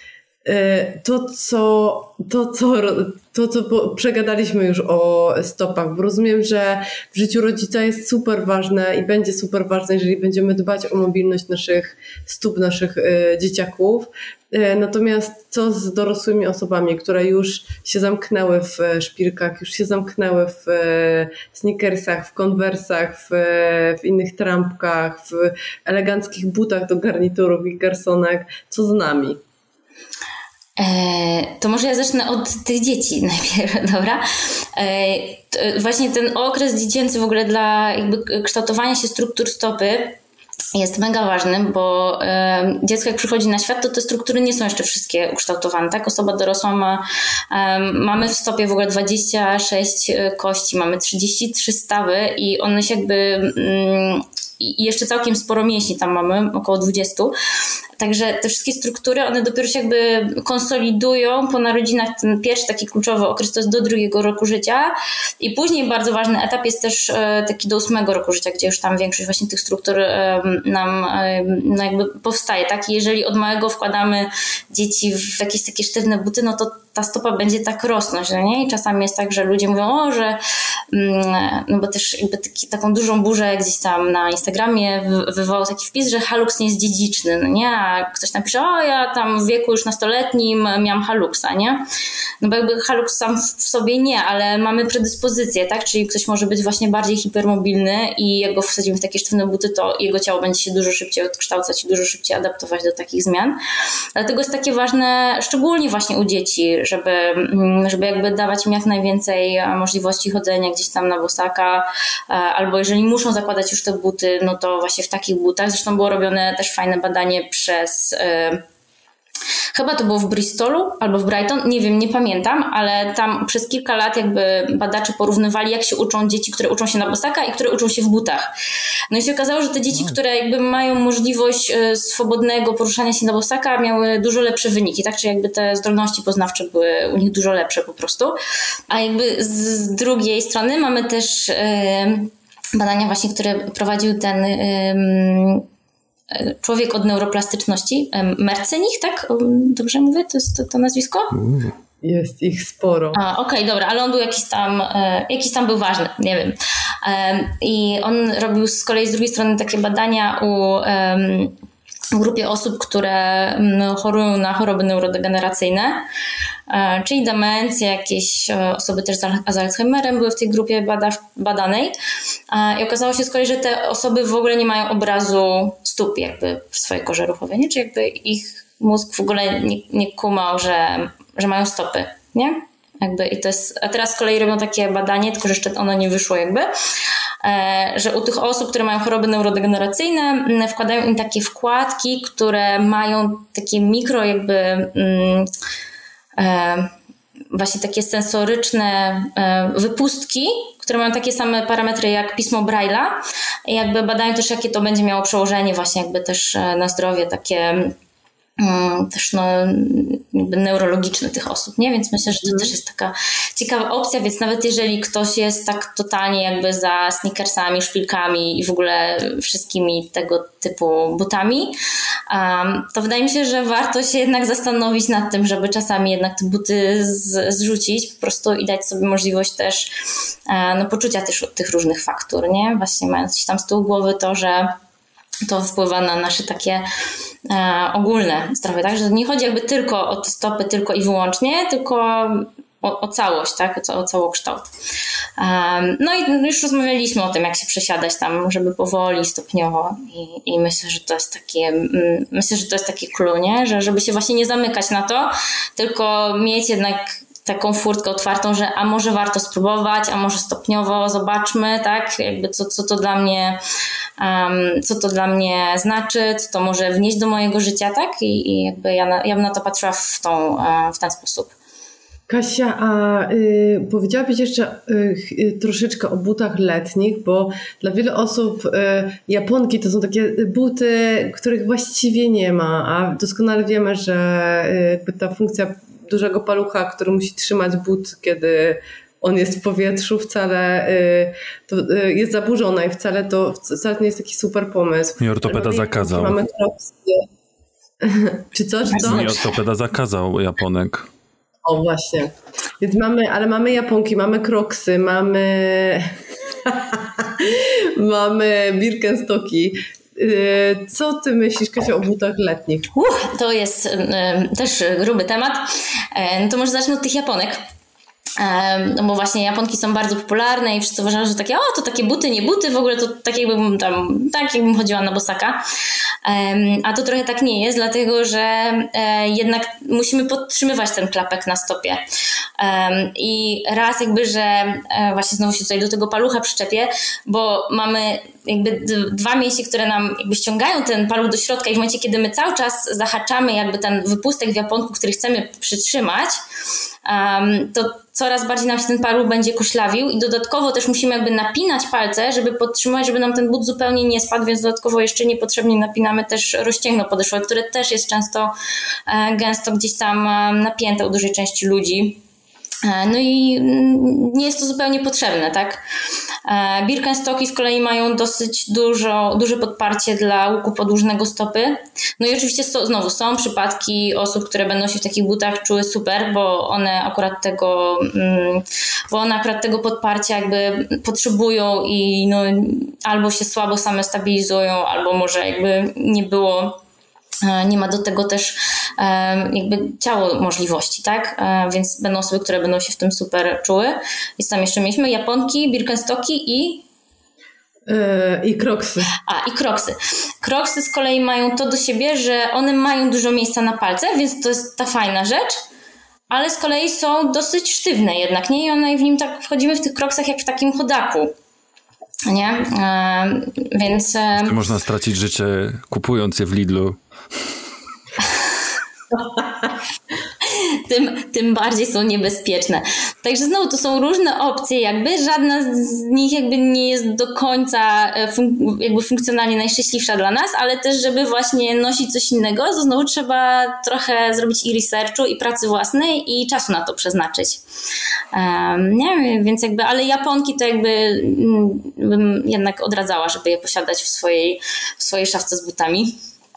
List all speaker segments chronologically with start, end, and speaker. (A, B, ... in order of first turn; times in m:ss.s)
0:00.4-0:29.4 A
0:30.8-0:40.2 B
0:40.7-0:57.3 B
0:58.0-1:20.4 B
1:20.9-1:31.8 B
1:32.4-1:43.6 B
1:44.2-1:58.6 B
1:59.7-2:08.5 B
2:09.1-2:18.4 B
2:18.9-2:25.7 B
2:26.3-2:31.3 B
2:31.3-2:31.8 C
2:32.0-2:33.2 A
2:33.1-2:41.6 B
2:42.1-2:46.0 B
2:46.7-2:51.9 B
2:52.5-3:06.7 B
3:07.4-3:15.5 B
3:16.4-3:16.9 B
3:17.5-3:28.0 B
3:28.6-3:41.8 B
3:32.4-3:32.7 A
3:42.3-3:49.9 B
3:50.5-3:54.8 B
3:55.5-3:56.8 B
3:57.5-4:04.7 B
4:05.4-4:23.6 B
4:24.2-4:31.5 B
4:32.3-4:57.3 A
4:55.2-4:56.4 C
4:58.0-4:59.5 A
4:59.0-4:59.3 B
4:59.0-5:01.1 C
5:01.6-5:12.9 A
5:12.9-5:17.6 B
5:18.4-5:25.6 B
5:26.2-5:32.0 B
5:32.6-5:46.4 B
5:47.0-5:58.5 B
5:59.1-6:02.2 B
6:02.8-6:05.8 B
6:06.4-6:26.8 B
6:27.4-6:36.8 B
6:37.9-6:39.1 A
6:39.2-6:45.6 B
6:46.3-6:51.3 B
6:52.3-6:54.6 B
6:54.4-6:57.0 C
6:58.2-6:58.5 B
7:00.4-7:17.6 B
7:18.3-7:26.2 B